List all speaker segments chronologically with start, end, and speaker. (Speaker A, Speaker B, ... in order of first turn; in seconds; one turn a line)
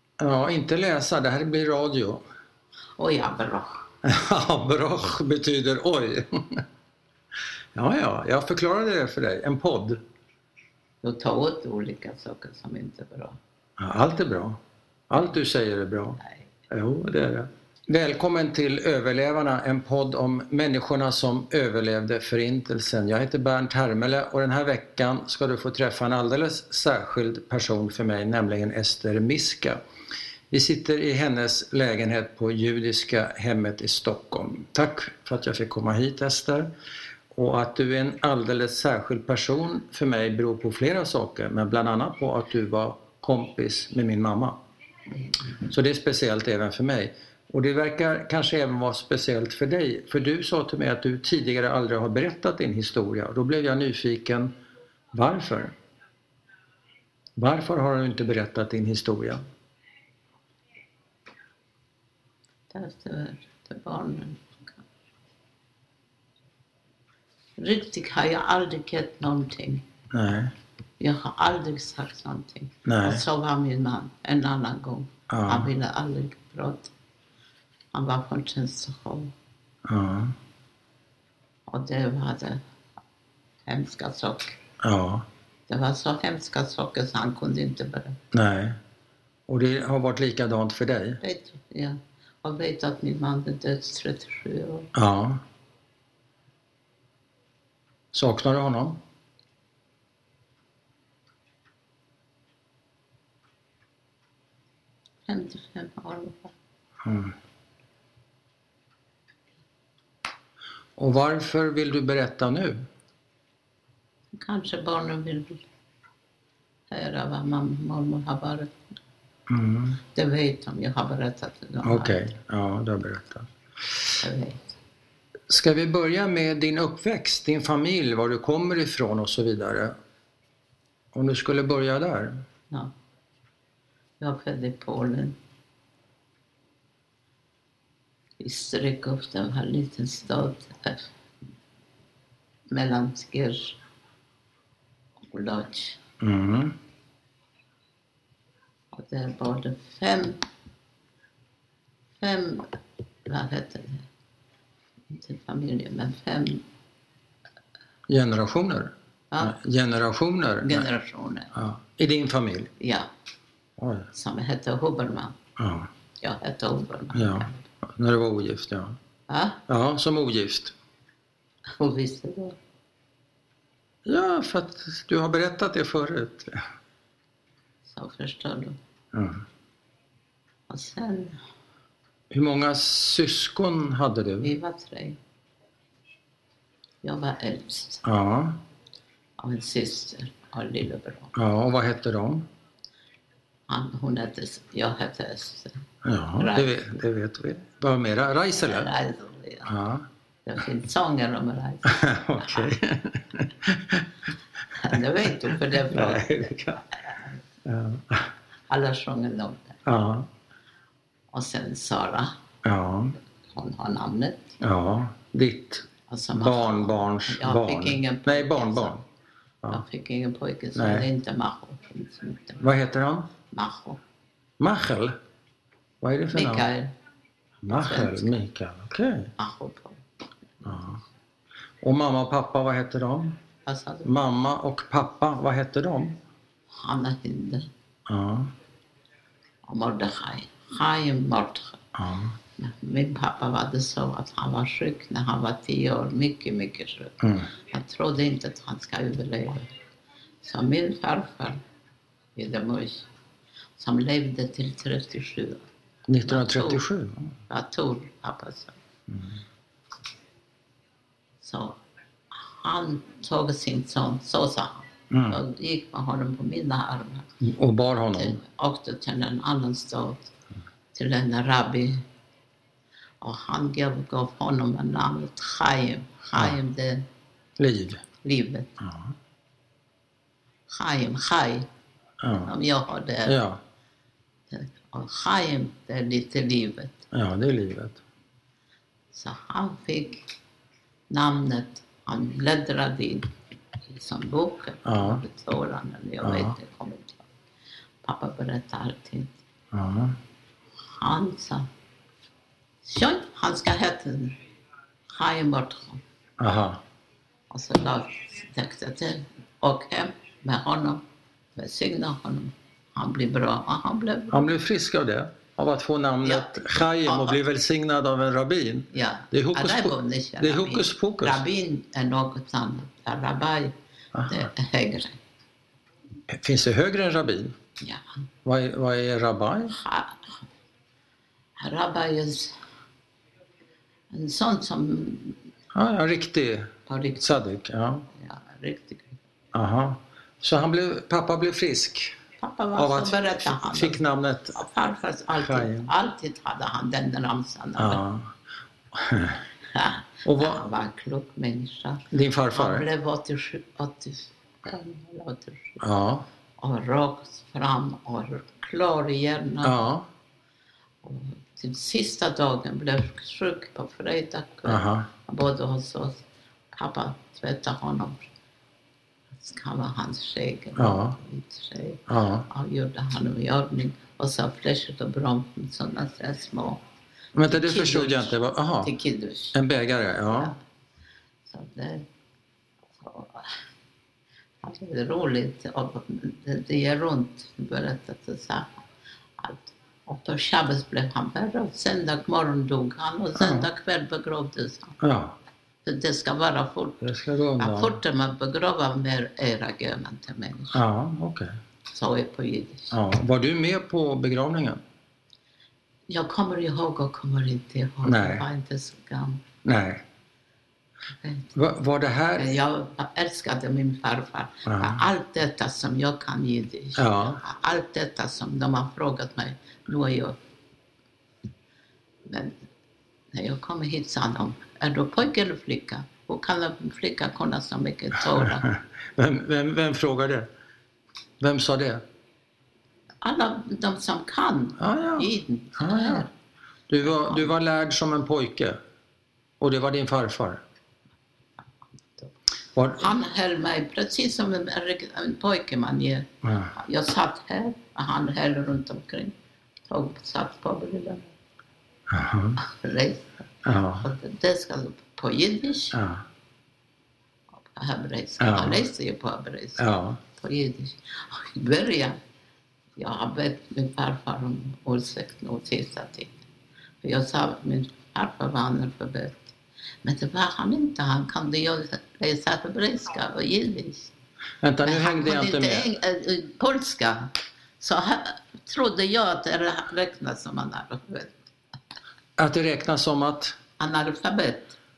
Speaker A: 0.2-2.2
Speaker B: 3.0-3.8
Speaker A: 4.0-6.6
Speaker A: 7.8-10.0
Speaker B: 11.0-13.4
Speaker A: 13.8-14.6
Speaker A: 15.1-29.8
Speaker A: 30.5-36.7
Speaker A: 37.3-44.6
Speaker A: 45.6-54.5
Speaker A: 55.1-55.7
Speaker A: 57.4-59.4
Speaker B: 62.7-64.7
Speaker B: 67.6-69.8
Speaker A: 70.1-70.5
Speaker B: 71.0-76.9
Speaker A: 72.9-73.2
Speaker A: 75.3-75.7
Speaker B: 77.9-79.3
Speaker A: 79.9-80.3
Speaker B: 81.7-82.6
Speaker B: 83.7-84.6
Speaker A: 84.8-85.2
Speaker B: 85.7-88.2
Speaker A: 88.3-88.8
Speaker A: 89.5-91.2
Speaker B: 91.2-94.9
Speaker A: 95.0-95.4
Speaker A: 98.1-99.0
Speaker B: 105.3-106.5
Speaker A: 107.0-107.3
Speaker A: 111.0-112.9
Speaker B: 114.3-115.6
Speaker B: 116.9-118.7
Speaker A: 119.5-120.0
Speaker B: 120.1-122.2
Speaker A: 121.8-124.0
Speaker B: 124.2-124.7
Speaker A: 125.5-129.9
Speaker A: 131.1-132.4
Speaker B: 134.2-135.4
Speaker B: 138.4-141.0
Speaker B: 142.7-143.8
Speaker B: 145.3-146.0
Speaker A: 146.2-146.7
Speaker B: 148.9-150.4
Speaker B: 152.2-152.7
Speaker B: 153.2-154.1
Speaker B: 155.1-156.6
Speaker A: 158.1-160.9
Speaker B: 159.3-159.6
Speaker B: 160.6-161.5
Speaker A: 161.5-162.7
Speaker B: 162.8-163.1
Speaker A: 163.8-164.1
Speaker B: 164.1-165.4
Speaker A: 165.6-165.9
Speaker B: 166.2-167.6
Speaker A: 167.1-168.9
Speaker B: 169.3-169.6
Speaker A: 169.7-170.7
Speaker B: 171.8-172.6
Speaker A: 174.0-176.6
Speaker B: 177.8-178.8
Speaker A: 179.1-179.4
Speaker B: 180.7-181.4
Speaker A: 182.3-184.5
Speaker B: 184.4-185.2
Speaker B: 187.0-188.0
Speaker A: 188.0-188.6
Speaker B: 189.4-191.3
Speaker A: 191.3-192.4
Speaker B: 193.7-195.7
Speaker A: 196.0-198.9
Speaker B: 196.4-196.8
Speaker B: 198.6-199.7
Speaker A: 199.7-200.0
Speaker B: 200.4-202.7
Speaker A: 201.8-204.1
Speaker B: 204.7-207.3
Speaker A: 204.9-206.8
Speaker A: 207.6-208.3
Speaker B: 208.7-209.8
Speaker A: 209.8-210.3
Speaker B: 211.3-212.3
Speaker A: 212.6-213.1
Speaker B: 213.4-214.5
Speaker A: 214.6-215.9
Speaker B: 216.1-218.9
Speaker A: 216.4-219.0
Speaker B: 219.7-222.6
Speaker A: 220.8-221.1
Speaker A: 222.6-223.3
Speaker B: 223.5-224.0
Speaker A: 224.6-225.1
Speaker A: 226.0-226.7
Speaker B: 226.3-226.9
Speaker A: 227.6-229.3
Speaker B: 227.7-228.4
Speaker B: 229.4-230.0
Speaker B: 230.6-230.9
Speaker A: 230.6-231.0
Speaker A: 231.8-233.4
Speaker B: 233.7-234.1
Speaker A: 234.0-236.1
Speaker B: 236.7-237.7
Speaker A: 238.1-238.5
Speaker B: 239.7-241.8
Speaker A: 241.9-242.3
Speaker B: 242.6-249.7
Speaker A: 247.2-247.5
Speaker B: 250.4-251.6
Speaker B: 252.3-253.1
Speaker B: 253.8-255.6
Speaker A: 256.1-257.3
Speaker B: 256.2-256.8
Speaker B: 257.5-258.8
Speaker A: 259.1-259.4
Speaker B: 261.4-261.8
Speaker B: 262.3-267.3
Speaker A: 265.1-265.4
Speaker A: 267.4-268.4
Speaker B: 268.1-270.3
Speaker B: 270.9-272.0
Speaker B: 273.2-277.1
Speaker A: 277.6-278.0
Speaker B: 278.2-278.7
Speaker A: 278.8-279.1
Speaker B: 280.7-281.7
Speaker A: 282.2-282.5
Speaker B: 282.4-283.4
Speaker A: 283.2-283.6
Speaker B: 284.5-287.0
Speaker A: 287.1-288.0
Speaker B: 289.1-290.2
Speaker B: 291.1-293.3
Speaker B: 293.9-297.2
Speaker A: 294.8-295.2
Speaker A: 296.2-296.5
Speaker B: 298.0-299.3
Speaker A: 299.7-300.2
Speaker B: 300.9-301.7
Speaker B: 302.8-304.4
Speaker B: 305.1-306.0
Speaker A: 306.4-306.8
Speaker B: 307.5-311.0
Speaker B: 311.6-314.5
Speaker A: 314.3-321.4
Speaker B: 316.2-317.4
Speaker B: 318.9-323.7
Speaker A: 324.1-324.4
Speaker B: 324.2-325.2
Speaker A: 326.3-327.5
Speaker A: 328.4-329.8
Speaker B: 329.7-330.4
Speaker B: 331.6-332.6
Speaker B: 334.1-335.4
Speaker A: 335.7-338.1
Speaker B: 336.9-337.3
Speaker B: 338.1-339.2
Speaker A: 339.5-342.2
Speaker B: 342.4-344.0
Speaker A: 342.8-344.6
Speaker B: 344.5-348.0
Speaker A: 345.4-345.9
Speaker A: 347.8-348.3
Speaker A: 348.9-349.4
Speaker B: 349.7-355.8
Speaker A: 350.2-350.6
Speaker A: 352.1-352.9
Speaker A: 355.8-356.2
Speaker B: 356.6-359.8
Speaker A: 359.6-360.1
Speaker B: 361.0-368.2
Speaker A: 364.6-365.1
Speaker B: 369.4-376.8
Speaker A: 370.8-371.1
Speaker A: 372.1-372.5
Speaker A: 377.3-378.9
Speaker B: 377.4-379.6
Speaker A: 379.5-380.5
Speaker B: 380.3-380.6
Speaker B: 381.4-382.1
Speaker B: 382.9-383.5
Speaker B: 384.6-388.8
Speaker B: 389.4-395.0
Speaker A: 393.4-393.7
Speaker A: 395.0-395.4
Speaker B: 395.8-400.8
Speaker A: 397.0-398.0
Speaker A: 400.7-401.5
Speaker B: 401.9-402.9
Speaker A: 402.9-404.8
Speaker B: 406.1-409.4
Speaker A: 408.0-408.4
Speaker A: 409.6-410.0
Speaker B: 411.2-411.5
Speaker A: 411.5-412.6
Speaker B: 412.4-420.4
Speaker A: 414.7-415.0
Speaker A: 417.0-417.4
Speaker B: 422.2-422.6
Speaker B: 423.3-428.7
Speaker A: 428.4-430.5
Speaker A: 431.4-432.0
Speaker B: 433.2-436.3
Speaker A: 434.8-436.2
Speaker A: 436.9-438.8
Speaker B: 437.0-437.5
Speaker A: 439.6-440.6
Speaker A: 442.8-443.1
Speaker B: 443.0-449.3
Speaker A: 446.4-446.7
Speaker B: 449.9-451.3
Speaker A: 452.1-452.6
Speaker B: 452.6-453.4
Speaker A: 453.6-454.1
Speaker B: 454.0-456.0
Speaker A: 455.9-456.2
Speaker B: 457.6-459.8
Speaker A: 458.4-458.8
Speaker A: 459.8-460.2
Speaker B: 460.3-462.2
Speaker B: 463.0-466.3
Speaker B: 467.0-474.1
Speaker A: 474.6-475.9
Speaker B: 474.8-481.4
Speaker A: 482.4-483.6
Speaker B: 483.8-484.8